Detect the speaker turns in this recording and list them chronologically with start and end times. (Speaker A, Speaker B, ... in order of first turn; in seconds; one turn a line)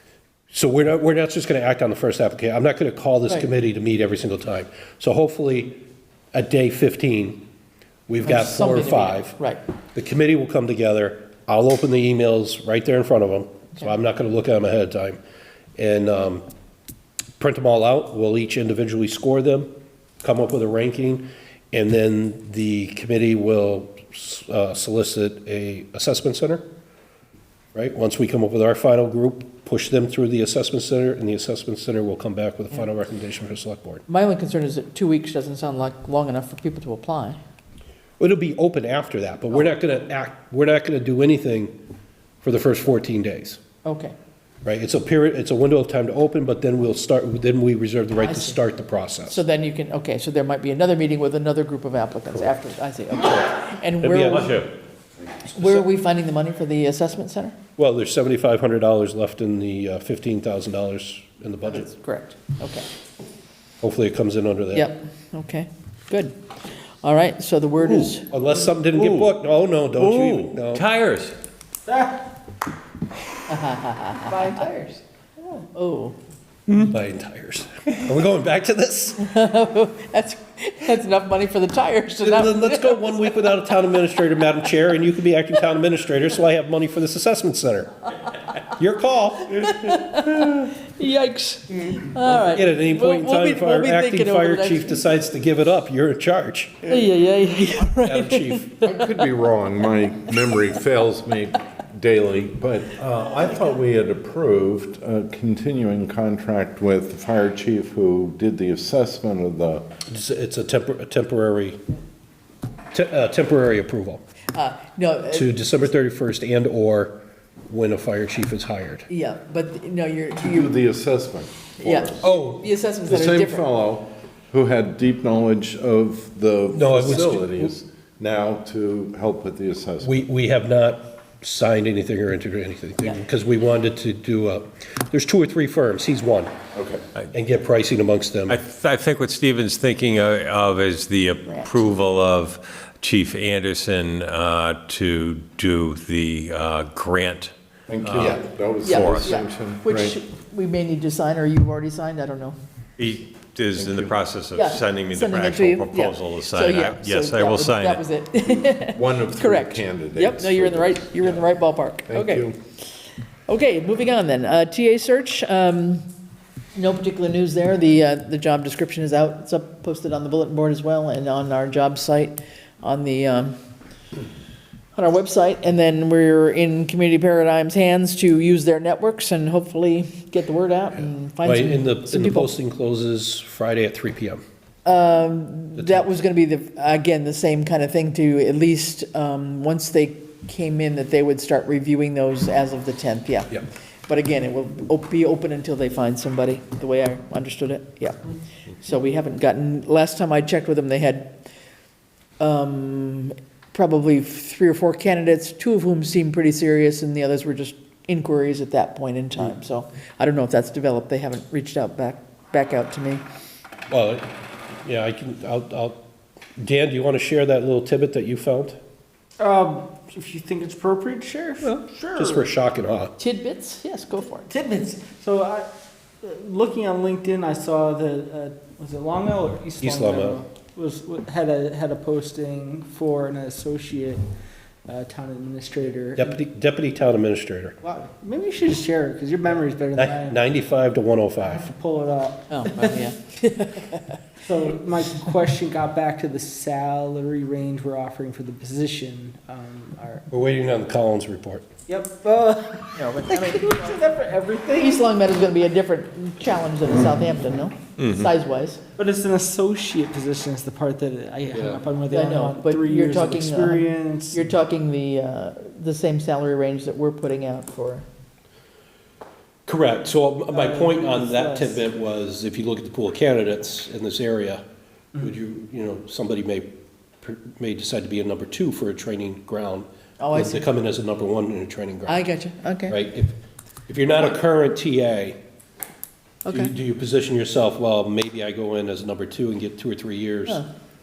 Speaker A: 0.5-5.8
Speaker A: 6.3-7.5
Speaker A: 8.1-9.4
Speaker B: 8.2-9.6
Speaker A: 9.9-15.2
Speaker A: 15.8-16.4
Speaker A: 17.4-26.7
Speaker A: 27.8-34.0
Speaker B: 34.1-37.4
Speaker A: 38.2-41.7
Speaker A: 42.4-43.6
Speaker B: 43.8-44.1
Speaker A: 44.6-49.4
Speaker B: 48.2-48.6
Speaker B: 49.3-54.6
Speaker A: 54.0-54.5
Speaker C: 54.3-54.7
Speaker B: 55.5-57.5
Speaker A: 55.5-55.9
Speaker A: 57.8-61.9
Speaker B: 61.8-62.9
Speaker A: 63.8-64.9
Speaker B: 64.7-66.4
Speaker B: 67.0-68.3
Speaker A: 68.2-70.8
Speaker C: 68.9-69.3
Speaker C: 70.0-71.4
Speaker D: 71.9-72.3
Speaker B: 73.5-74.9
Speaker B: 75.4-76.2
Speaker A: 76.8-79.3
Speaker B: 79.2-83.5
Speaker A: 82.2-88.0
Speaker A: 88.6-89.8
Speaker B: 89.6-95.1
Speaker A: 92.2-96.9
Speaker B: 96.9-99.2
Speaker A: 98.0-98.8
Speaker E: 98.8-109.9
Speaker A: 110.1-111.8
Speaker A: 112.9-114.2
Speaker B: 114.5-115.5
Speaker A: 115.3-119.1
Speaker B: 119.1-120.7
Speaker E: 120.4-122.3
Speaker B: 121.8-123.7
Speaker A: 122.2-122.7
Speaker E: 123.1-130.2
Speaker A: 126.7-127.7
Speaker A: 130.0-136.5
Speaker E: 136.8-137.0
Speaker A: 137.3-138.6
Speaker C: 138.5-147.5
Speaker B: 141.5-141.8
Speaker E: 147.9-150.2
Speaker C: 148.0-149.3
Speaker B: 148.8-152.6
Speaker C: 153.0-158.1
Speaker E: 153.8-154.2
Speaker B: 154.6-162.5
Speaker E: 158.9-161.5
Speaker E: 162.1-162.6
Speaker B: 163.5-166.1
Speaker B: 166.8-173.6
Speaker B: 174.9-182.5
Speaker A: 181.4-184.4
Speaker B: 184.8-193.5
Speaker A: 185.8-186.1
Speaker B: 194.1-201.3
Speaker B: 202.4-213.2
Speaker A: 213.9-214.3
Speaker A: 214.8-216.0
Speaker A: 216.6-218.8
Speaker D: 219.4-222.5
Speaker A: 222.2-223.2
Speaker B: 223.2-224.5
Speaker D: 224.4-225.7
Speaker D: 226.2-234.3
Speaker A: 229.8-230.4
Speaker D: 234.9-236.4
Speaker A: 236.2-237.8
Speaker D: 237.8-240.5
Speaker A: 239.9-241.7
Speaker D: 241.4-243.0
Speaker B: 242.5-244.2
Speaker D: 244.4-250.2
Speaker A: 250.3-251.7
Speaker D: 251.9-255.1
Speaker B: 253.0-253.9
Speaker B: 254.8-258.8
Speaker C: 258.0-258.3
Speaker D: 259.0-264.5
Speaker B: 262.1-268.1
Speaker A: 269.7-274.6
Speaker D: 270.5-271.8
Speaker A: 275.1-276.7
Speaker A: 277.2-282.3
Speaker B: 280.2-280.7
Speaker B: 282.1-283.0
Speaker A: 282.9-283.4
Speaker A: 283.9-285.4
Speaker B: 286.5-286.7
Speaker A: 286.5-290.6